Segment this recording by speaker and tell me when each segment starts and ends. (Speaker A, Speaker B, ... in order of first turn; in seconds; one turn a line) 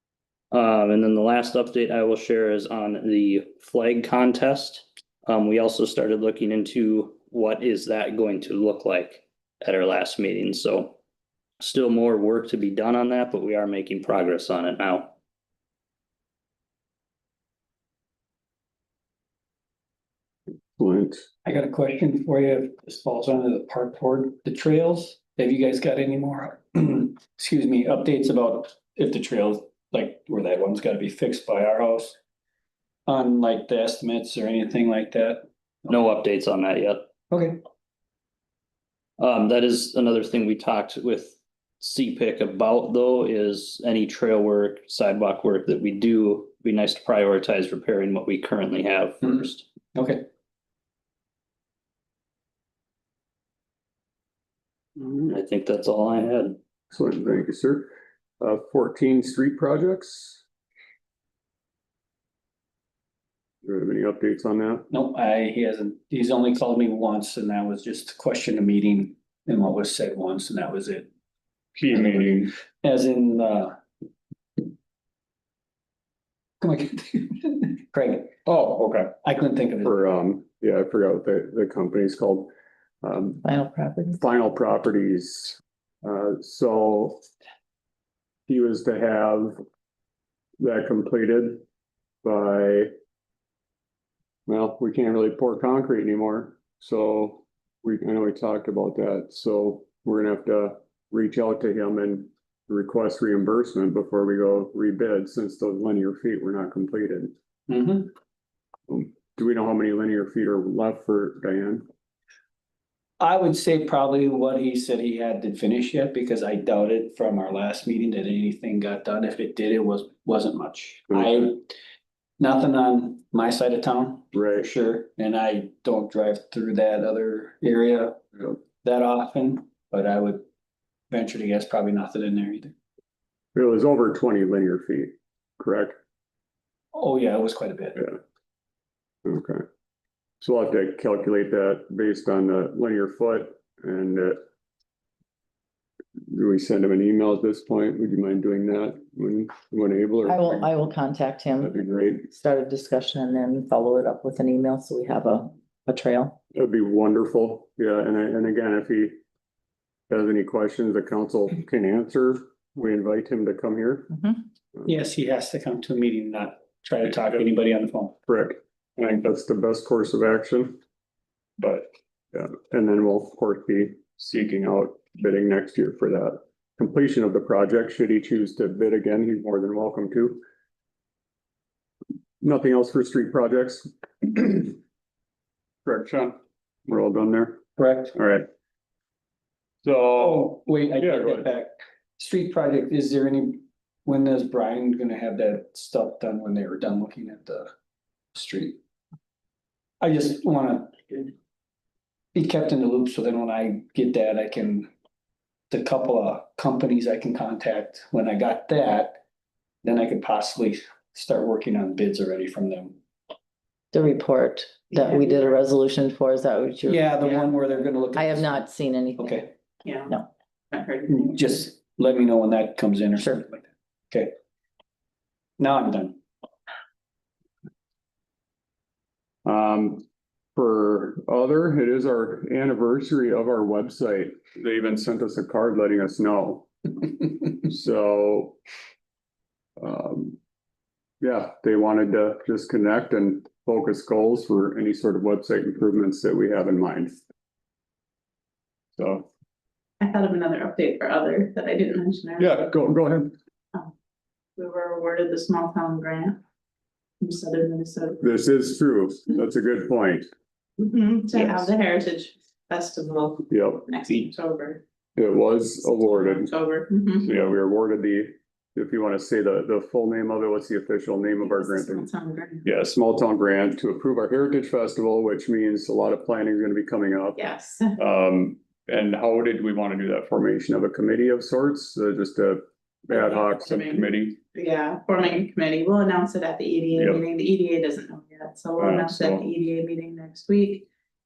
Speaker A: 0.5-11.0
Speaker A: 11.6-15.1
Speaker B: 20.8-21.2
Speaker C: 21.4-32.2
Speaker C: 33.1-35.5
Speaker A: 35.9-37.1
Speaker C: 37.3-37.6
Speaker A: 39.2-49.7
Speaker C: 50.0-50.3
Speaker A: 55.3-56.6
Speaker B: 56.9-60.4
Speaker B: 63.6-64.9
Speaker C: 64.9-71.1
Speaker B: 71.8-72.5
Speaker C: 72.8-73.7
Speaker C: 76.6-78.4
Speaker B: 78.5-79.1
Speaker C: 79.2-80.0
Speaker B: 79.8-82.5
Speaker B: 83.0-83.5
Speaker D: 83.4-84.2
Speaker B: 84.2-87.2
Speaker B: 88.5-89.6
Speaker B: 90.6-91.6
Speaker B: 92.2-92.9
Speaker B: 94.5-107.3
Speaker C: 107.7-108.1
Speaker B: 108.9-111.9
Speaker C: 113.2-121.6
Speaker C: 122.4-128.2
Speaker B: 124.3-124.7
Speaker C: 128.8-130.4
Speaker C: 131.1-132.7
Speaker B: 133.6-135.9
Speaker C: 136.9-138.2
Speaker B: 139.2-139.6
Speaker B: 140.4-144.4
Speaker B: 146.3-150.8
Speaker D: 150.3-151.7
Speaker B: 151.6-152.3
Speaker D: 152.3-156.4
Speaker B: 156.5-159.2
Speaker B: 160.1-164.1
Speaker C: 164.8-168.2
Speaker B: 168.3-170.8
Speaker B: 171.6-180.4
Speaker B: 182.4-184.8
Speaker B: 185.8-187.6
Speaker C: 187.8-188.2
Speaker B: 188.1-188.5
Speaker B: 189.8-191.5
Speaker C: 190.2-197.7
Speaker C: 198.3-198.8
Speaker C: 200.0-201.3
Speaker C: 202.3-204.9
Speaker C: 205.7-209.2
Speaker C: 209.8-213.0
Speaker D: 213.9-217.4
Speaker C: 216.8-218.6
Speaker D: 218.2-219.4
Speaker C: 219.2-219.5
Speaker E: 219.8-220.1
Speaker E: 220.7-221.2
Speaker C: 221.1-224.3
Speaker C: 225.6-226.2
Speaker B: 229.4-230.0
Speaker B: 230.6-238.6
Speaker B: 239.8-240.4
Speaker B: 241.2-247.2
Speaker B: 249.0-249.3
Speaker E: 250.0-252.7
Speaker B: 252.4-253.3
Speaker E: 254.6-256.4
Speaker E: 257.2-258.2
Speaker B: 258.2-260.3
Speaker E: 260.8-264.8
Speaker B: 263.5-263.9
Speaker B: 265.2-266.5
Speaker E: 265.9-267.3
Speaker B: 267.3-272.1
Speaker E: 271.4-272.7
Speaker B: 272.6-277.4
Speaker E: 277.4-278.0
Speaker B: 278.0-284.4
Speaker E: 283.1-290.9
Speaker B: 286.9-287.2
Speaker B: 288.8-289.4